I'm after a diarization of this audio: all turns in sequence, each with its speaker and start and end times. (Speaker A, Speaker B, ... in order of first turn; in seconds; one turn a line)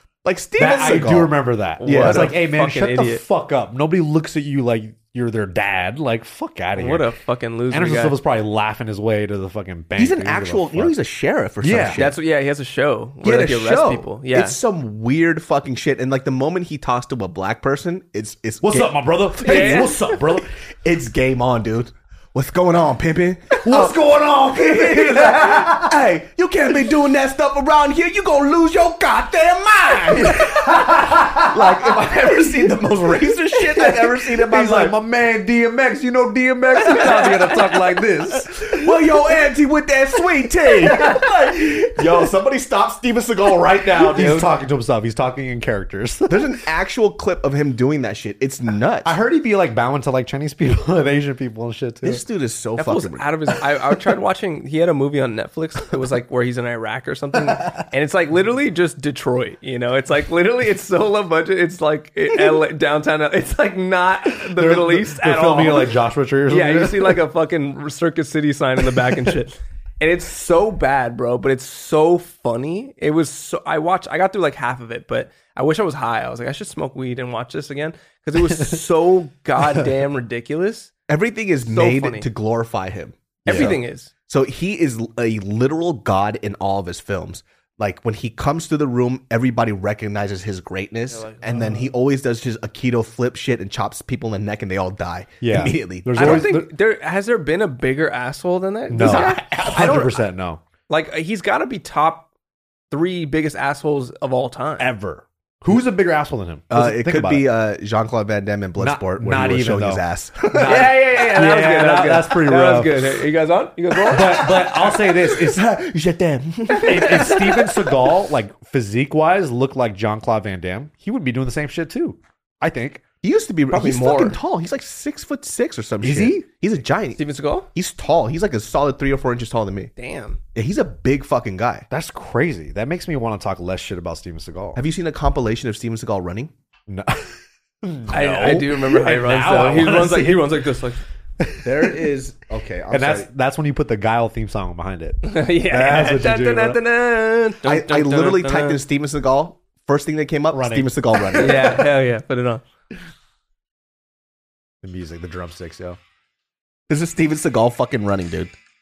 Speaker A: 0.2-2.3
Speaker B: 0.6-7.1
Speaker C: 1.8-3.2
Speaker C: 6.7-8.2
Speaker B: 7.7-10.9
Speaker A: 9.9-12.2
Speaker B: 11.6-12.0
Speaker C: 11.9-14.6
Speaker A: 13.2-35.0
Speaker B: 18.6-20.5
Speaker C: 19.4-20.1
Speaker B: 23.6-25.9
Speaker B: 30.1-32.7
Speaker B: 33.5-38.7
Speaker C: 37.0-37.4
Speaker A: 38.4-44.5
Speaker B: 43.7-46.6
Speaker A: 46.3-49.1
Speaker B: 49.0-52.2
Speaker A: 52.0-53.3
Speaker C: 52.8-80.9
Speaker B: 64.3-67.2
Speaker B: 68.9-69.3
Speaker A: 81.1-96.5
Speaker C: 81.6-82.3
Speaker B: 83.5-83.8
Speaker C: 83.5-84.1
Speaker C: 91.1-91.9
Speaker B: 95.4-96.7
Speaker C: 96.2-100.2
Speaker B: 98.9-100.6
Speaker A: 99.0-100.0
Speaker C: 100.9-102.3
Speaker C: 102.9-104.9
Speaker B: 104.8-107.5
Speaker A: 106.7-110.9
Speaker B: 108.8-113.2
Speaker C: 110.6-114.6
Speaker B: 114.1-115.6
Speaker A: 114.1-117.6
Speaker C: 116.7-117.9
Speaker B: 116.8-123.0
Speaker A: 123.2-127.2
Speaker C: 123.7-124.4
Speaker B: 126.0-126.4
Speaker C: 127.2-127.7
Speaker A: 127.7-129.9
Speaker C: 130.0-130.4
Speaker A: 130.5-131.9
Speaker B: 131.9-134.8
Speaker A: 134.8-136.5
Speaker B: 136.9-140.7
Speaker C: 138.1-141.0
Speaker B: 141.4-141.9
Speaker A: 141.6-143.3
Speaker B: 142.9-146.8
Speaker C: 145.2-148.8
Speaker A: 147.6-151.8
Speaker B: 150.5-151.8
Speaker C: 151.3-152.6
Speaker B: 154.8-156.0
Speaker A: 156.9-158.5